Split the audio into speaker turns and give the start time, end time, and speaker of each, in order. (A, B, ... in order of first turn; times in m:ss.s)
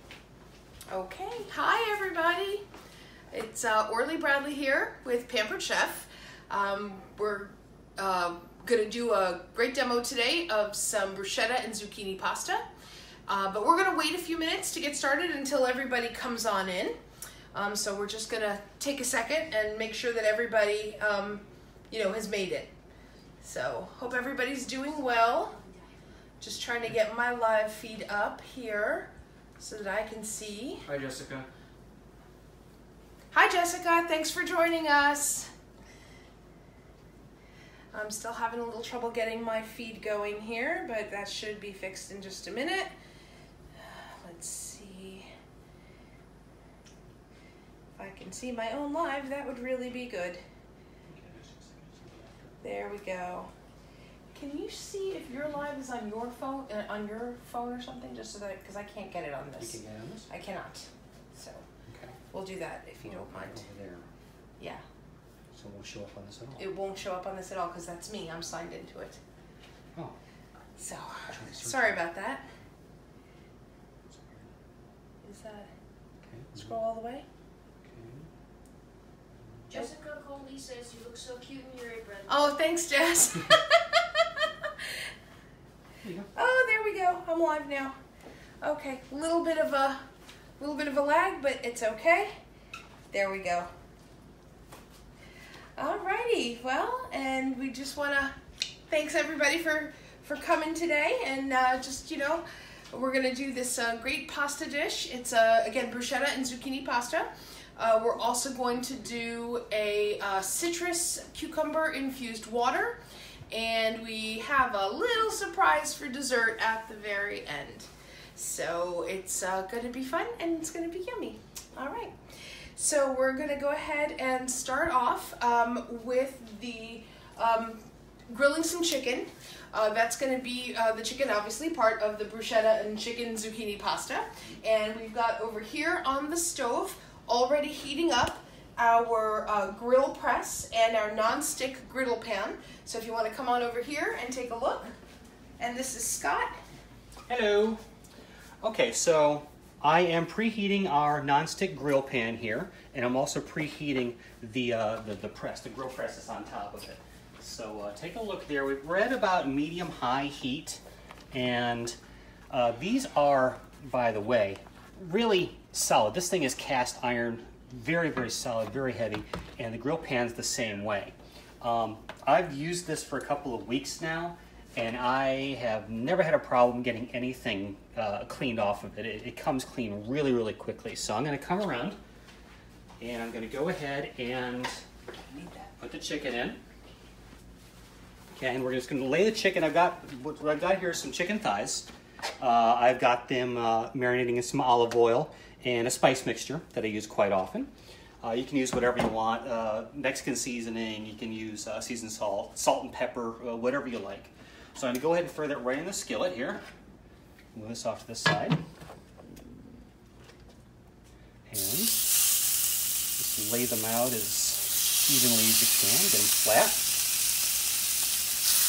0:00.9-0:02.6 A
0:03.3-0:12.6 A
0:13.3-0:17.0 A
0:17.5-0:22.7 A
0:23.4-0:25.6 A
0:24.8-0:26.0 B
0:26.4-0:30.8 A
0:30.8-0:31.5 C
0:33.3-0:35.5 A
0:37.9-0:42.9 A
0:43.8-0:45.3 A
0:48.0-0:50.4 A
0:51.1-0:52.5 C
0:52.6-0:53.5 A
0:54.3-1:01.6 A
0:59.6-1:00.3 C
1:01.9-1:02.2 C
1:02.3-1:03.6 A
1:03.0-1:04.1 C
1:05.5-1:06.6 C
1:06.6-1:09.2 A
1:10.8-1:12.4 A
1:11.3-1:12.0 C
1:14.1-1:14.5 C
1:15.2-1:15.7 A
1:16.3-1:16.7 C
1:16.5-1:17.2 A
1:17.8-1:18.3 C
1:19.7-1:22.5 B
1:22.3-1:24.7 A
1:26.0-1:26.3 C
1:26.3-1:28.0 A
1:28.6-1:30.0 A
1:30.6-1:32.3 A
1:33.1-1:33.7 A
1:35.8-1:38.4 A
1:38.9-1:53.0 A
1:53.5-2:02.2 A
2:02.8-2:24.9 A
2:25.6-2:26.6 A
2:27.3-2:27.8 C
2:28.6-2:42.0 C
2:42.5-3:02.0 C
3:03.0-3:04.8 C
3:05.3-3:06.6 C
3:08.3-3:11.9 C
3:12.4-3:17.7 C
3:18.2-3:26.6 C
3:27.5-3:28.6 C
3:31.5-3:32.1 C
3:33.2-3:36.9 C